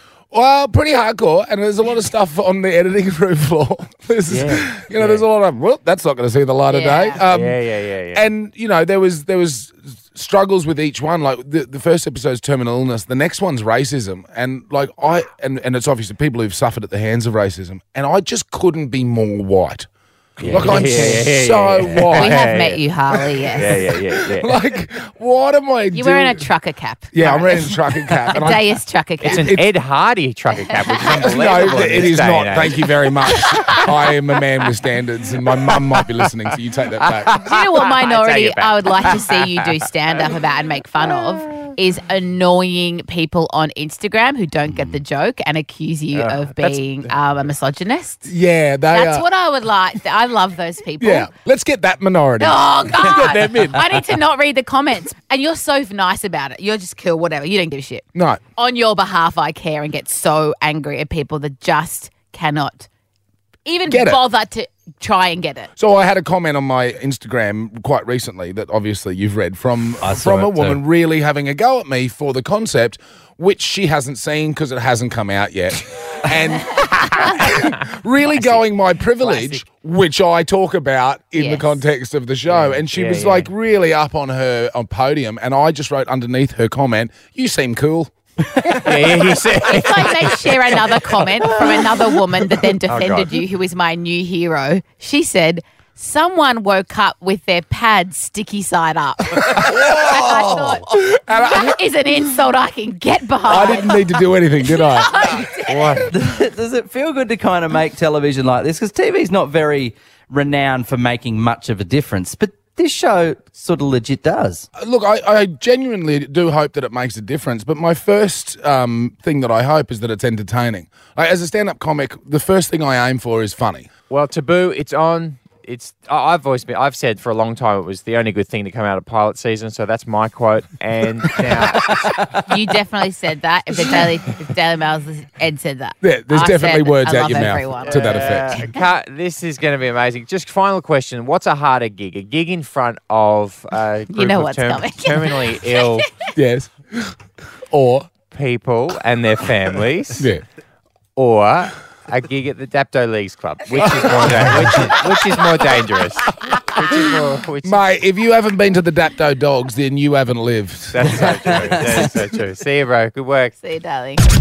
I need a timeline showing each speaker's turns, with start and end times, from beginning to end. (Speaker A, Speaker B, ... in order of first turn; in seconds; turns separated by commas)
Speaker A: 0.3-7.6, Speaker B: 4.3-4.6, Speaker C: 4.3-5.2, Speaker D: 6.7-7.2, Speaker C: 7.3-8.2, Speaker A: 8.1-19.9, Speaker B: 20.4-21.2, Speaker A: 20.4-22.4, Speaker C: 20.4-22.8, Speaker D: 22.1-23.7, Speaker A: 23.3-26.4, Speaker C: 23.6-24.5, Speaker D: 25.9-29.5, Speaker A: 27.1-29.6, Speaker C: 29.2-32.9, Speaker D: 30.6-31.1, Speaker A: 31.0-37.5, Speaker D: 33.5-33.8, Speaker C: 37.2-39.4, Speaker D: 37.4-48.3, Speaker C: 46.1-46.8, Speaker A: 48.2-49.2, Speaker D: 48.9-51.3, Speaker A: 51.0-53.8, Speaker D: 52.4-58.0, Speaker A: 58.1-58.4, Speaker D: 58.6-62.9, Speaker D: 63.6-65.7, Speaker A: 63.9-64.2, Speaker A: 65.8-88.1, Speaker B: 70.0-70.8, Speaker C: 78.3-78.6, Speaker C: 79.2-79.6, Speaker D: 81.3-81.8, Speaker C: 82.5-83.5, Speaker C: 88.8-90.5, Speaker D: 89.6-106.0, Speaker C: 92.9-93.4, Speaker A: 99.5-101.8, Speaker B: 99.7-100.8, Speaker A: 103.5-105.5, Speaker C: 105.7-106.1, Speaker B: 106.0-114.7, Speaker A: 114.8-123.9, Speaker C: 124.1-132.2, Speaker B: 131.4-132.4, Speaker D: 132.4-138.7, Speaker A: 136.0-138.6, Speaker C: 137.8-146.1, Speaker D: 144.1-146.0, Speaker A: 146.3-147.2, Speaker A: 147.7-148.1, Speaker C: 148.3-150.3, Speaker A: 150.2-150.4, Speaker C: 151.2-157.9, Speaker A: 153.8-154.9, Speaker A: 157.6-162.0, Speaker C: 160.9-163.5, Speaker B: 161.1-162.1, Speaker D: 163.6-164.2